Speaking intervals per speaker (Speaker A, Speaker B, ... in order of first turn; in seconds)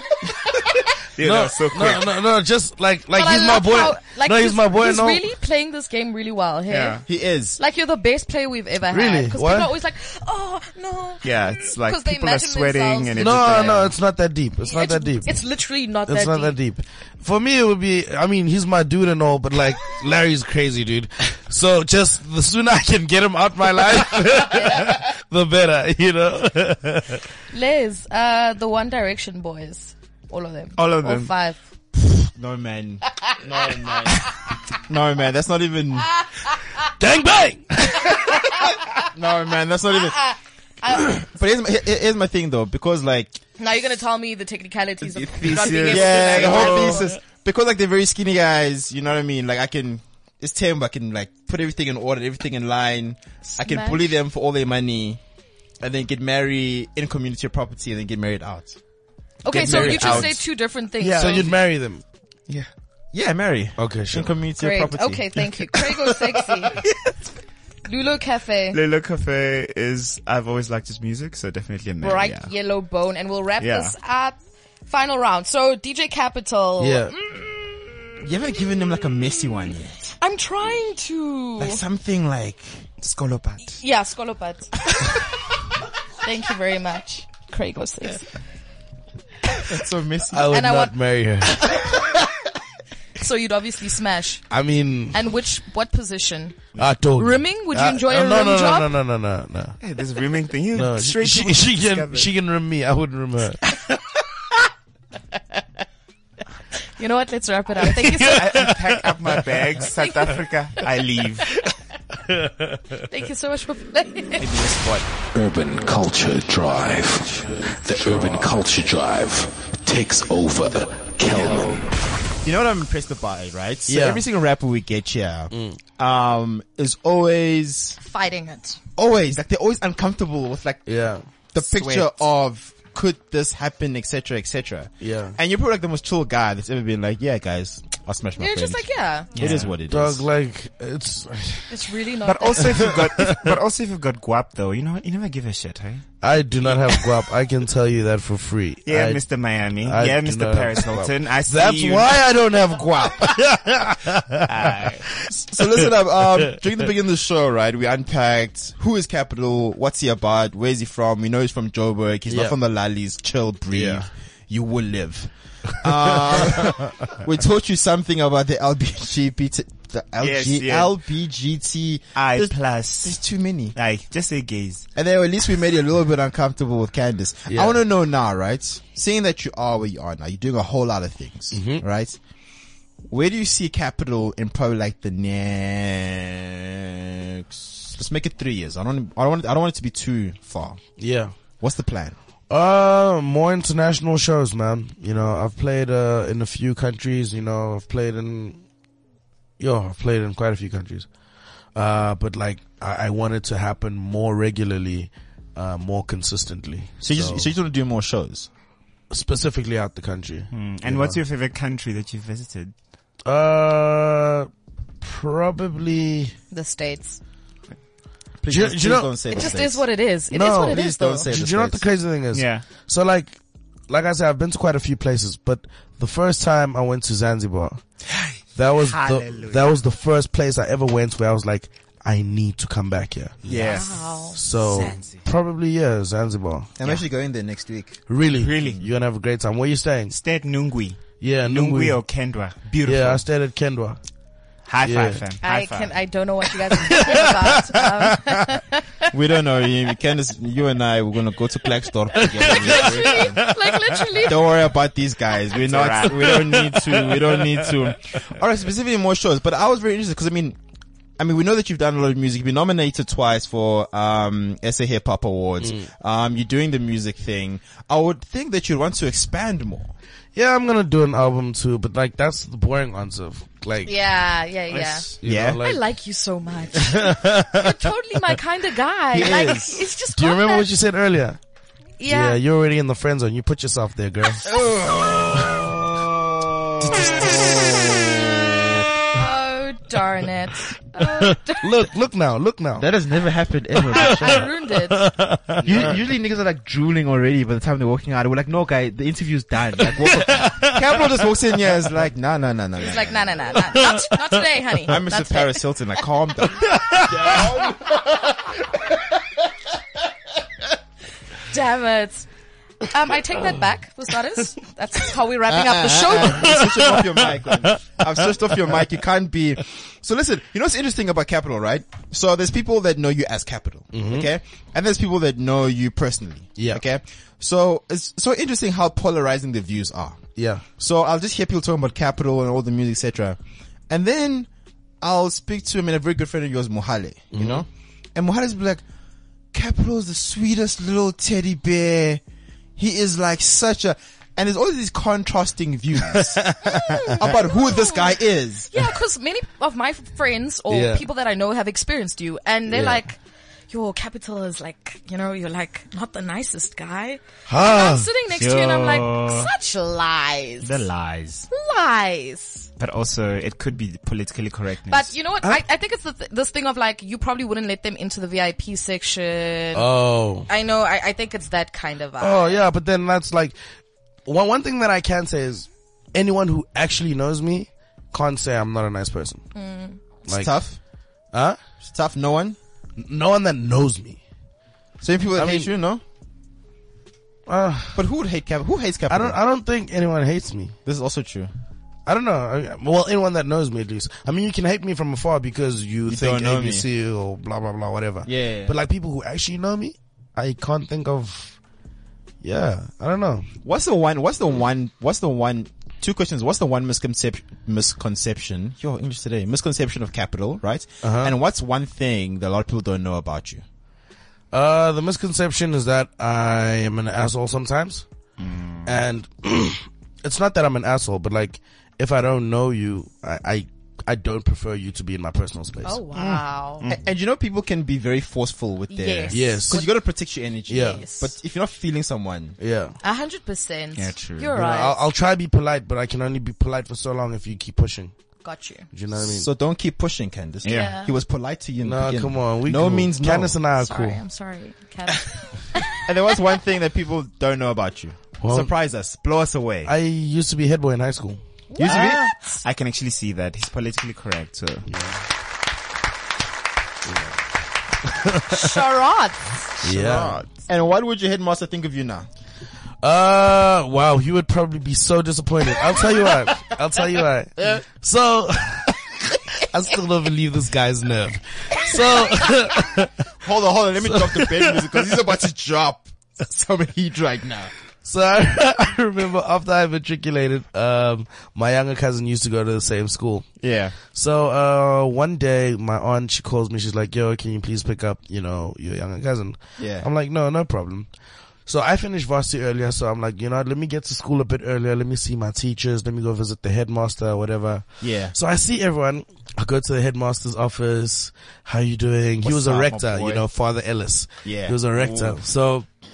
Speaker A: 0.4-2.2, 6.7-7.0, 11.2-13.9, 30.8-31.3, 45.3-47.1, 59.5-60.4, 61.1-61.5, 68.7-72.5, 73.6-73.9, 83.0-83.8, 99.8-102.3, 108.2-111.5, 131.6-132.2, 139.3-139.7, 142.2-146.1, 148.8-152.2, 154.4-155.1, 170.2-170.9, 172.1-173.2, 173.7-174.9, 210.5-212.7, 222.3-222.7, 228.1-229.7, 233.4-235.2, 238.4-238.8, 240.1-243.2, 244.6-245.9, 255.6-256.6, 274.7-275.1, 358.3-359.5, 360.6-361.5, 362.8-365.1, 418.4-418.9, 426.1-427.1, 433.9-434.5, 440.6-440.9, 451.9-454.9, 459.8-460.5
Speaker B: 1.2-5.2, 8.9-9.7, 13.2-15.3, 16.1-27.2, 37.0-38.3, 61.0-62.0, 63.8-64.3, 76.8-77.1, 90.3-91.8, 94.5-95.2, 96.8-99.8, 100.7-103.7, 108.4-109.4, 112.3-112.8, 123.9-124.2, 125.5-125.8, 130.9-131.2, 135.0-135.3, 139.9-141.7, 142.6-143.5, 146.2-149.2, 149.8-155.8, 162.3-162.5, 163.7-164.1, 177.5-177.8, 181.5-181.8, 191.0-191.3, 192.5-198.6, 199.6-201.1, 201.7-207.5, 209.1-211.2, 213.2-214.5, 215.0-216.3, 218.5-219.1, 220.3-227.8, 228.5-233.4, 234.3-236.7, 238.1-240.1, 241.2-242.0, 242.8-244.0, 244.8-245.2, 246.9-247.2, 252.1-254.3, 256.0-257.9, 265.6-265.9, 270.3-273.9, 275.2-275.8, 277.0-277.9, 279.1-279.6, 280.1-281.4, 282.1-284.4, 291.0-292.9, 293.7-296.0, 300.1-301.0, 303.6-304.8, 306.6-307.6, 316.1-318.9, 323.9-324.3, 326.6-326.8, 330.4-330.6, 337.3-337.6, 346.1-346.8, 350.7-351.0, 352.7-353.0, 357.5-358.1, 369.7-370.5, 372.2-373.6, 374.2-379.4, 380.3-380.5, 381.3-381.6, 383.0-384.2, 385.3-385.7, 387.5-388.0, 389.1-390.7, 392.1-401.6, 402.4-403.5, 411.0-411.3, 414.5-418.0, 418.9-426.0, 429.3-429.8, 430.7-431.0, 432.6-432.9, 434.5-438.1, 438.9-439.5, 441.8-444.2, 448.4-448.7, 449.9-451.4, 454.9-455.2, 458.1-458.6, 459.8-460.4, 463.0-469.0, 469.6-473.1, 474.0-475.0, 478.0-483.4, 484.1-491.1, 491.6-505.9
Speaker C: 3.1-7.0, 7.6-13.7, 14.6-16.5, 24.5-24.9, 27.5-31.6, 38.1-38.7, 40.1-41.2, 43.6-47.1, 53.6-54.1, 59.4-61.5, 64.6-66.8, 67.8-68.8, 72.0-77.5, 80.2-81.8, 83.7-84.8, 86.2-88.3, 90.5-90.9, 93.2-94.4, 95.1-96.6, 97.1-98.9, 107.0-108.4, 110.0-110.4, 113.1-114.5, 128.0-128.8, 138.4-139.3, 141.7-142.8, 216.5-217.2, 219.3-221.3, 233.5-234.4, 245.4-249.1, 252.7-254.5, 273.8-280.7, 282.0-282.4, 289.1-291.7, 293.9-295.0, 302.8-305.6, 311.5-312.3, 312.8-316.7, 346.6-348.2, 348.7-353.2, 353.7-360.9, 361.5-362.7, 364.9-372.6, 379.5-380.0, 425.8-426.8, 428.9-429.9, 430.8-431.3, 433.0-435.0, 438.4-438.9, 440.7-441.1, 443.8-446.1, 451.7-452.6, 458.5-459.7
Speaker D: 7.1-7.6, 32.4-34.2, 34.9-36.1, 39.1-40.2, 41.0-43.4, 45.4-55.2, 55.8-58.8, 59.5-60.4, 63.1-66.1, 78.2-80.2, 81.6-82.8, 89.6-90.6, 114.4-115.0, 122.4-128.0, 129.0-130.8, 131.5-140.2, 155.4-173.7, 174.9-182.2, 183.1-190.8, 191.6-192.2, 207.0-208.5, 218.4-219.8, 220.4-221.9, 233.4-233.8, 236.8-238.1, 249.1-253.4, 254.2-260.6, 261.2-269.9, 275.2-275.6, 279.1-279.8, 284.4-288.9, 292.8-294.5, 295.6-303.7, 304.9-308.3, 315.6-330.3, 330.8-334.5, 335.0-338.8, 339.5-342.2, 342.8-348.7, 380.3-380.8, 381.8-382.6, 385.0-386.0, 387.9-389.4, 390.9-391.5, 396.1-396.9, 398.2-398.7, 403.6-413.6, 426.9-432.6, 439.1-443.6, 446.1-449.9, 451.8-452.2, 459.9-462.3, 473.4-477.7, 483.6-484.0, 489.8-490.1, 498.0-498.3, 502.4-503.4, 504.4-505.4
Speaker E: 115.3-121.9